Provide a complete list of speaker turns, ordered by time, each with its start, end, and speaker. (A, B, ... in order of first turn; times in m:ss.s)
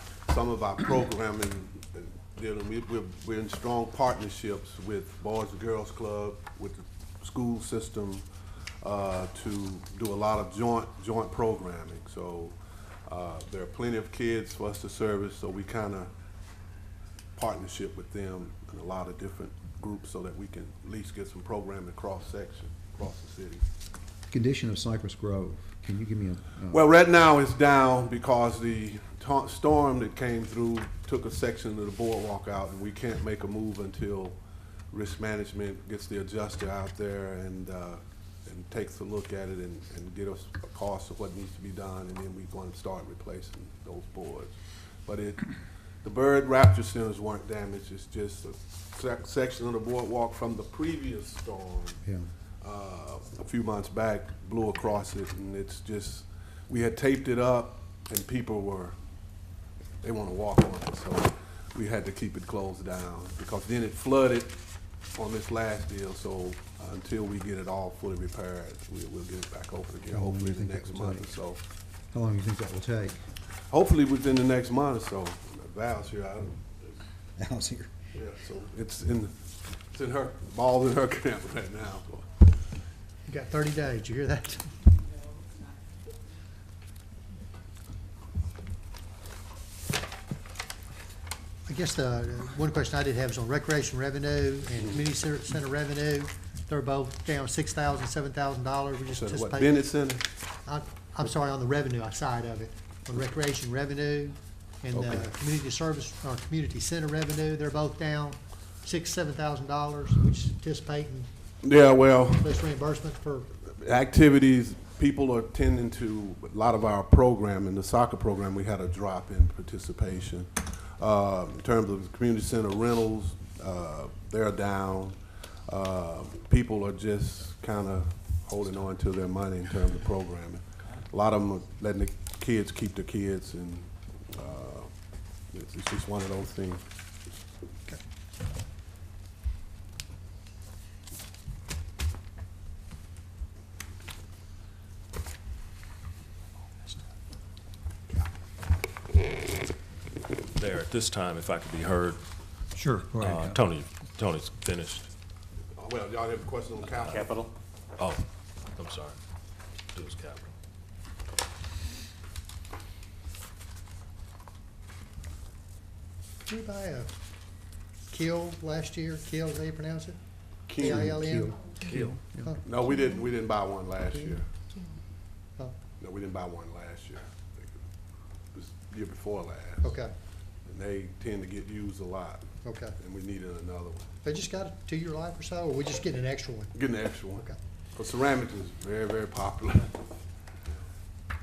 0:00.3-0:08.2 A
0:08.8-0:12.6 A
0:13.1-0:16.1 A
0:17.4-0:23.6 A
0:24.3-0:26.9 B
0:26.7-0:34.4 A
0:34.9-0:44.6 A
0:45.1-0:45.5 A
0:46.0-0:52.0 A
0:52.0-0:52.3 B
0:52.6-0:59.0 A
1:00.0-1:04.6 A
1:05.2-1:11.6 A
1:10.1-1:11.3 B
1:12.1-1:13.2 B
1:13.7-1:16.7 A
1:17.4-1:17.9 B
1:18.1-1:19.3 A
1:19.9-1:22.4 A
1:23.3-1:24.8 C
1:31.7-1:39.9 C
1:39.1-1:40.2 A
1:40.7-1:51.3 C
1:44.9-1:45.4 A
1:51.6-1:52.6 A
1:52.3-1:53.5 C
1:53.6-2:14.9 A
2:15.5-2:16.8 A
2:30.5-2:32.2 D
2:32.8-2:33.6 C
2:33.1-2:35.1 D
2:35.8-2:37.5 A
2:36.9-2:39.2 D
2:39.9-2:40.5 D
2:46.5-2:47.1 C
2:48.1-2:50.2 C
2:50.7-2:51.2 A
2:50.8-2:51.8 C
2:50.8-2:52.5 B
2:52.4-2:52.8 C
2:52.6-2:54.5 A
2:56.0-2:57.8 A
2:58.5-3:00.0 A
2:59.8-3:00.1 C
3:00.7-3:04.1 A
3:02.6-3:03.0 C
3:04.2-3:07.6 C
3:06.7-3:10.0 A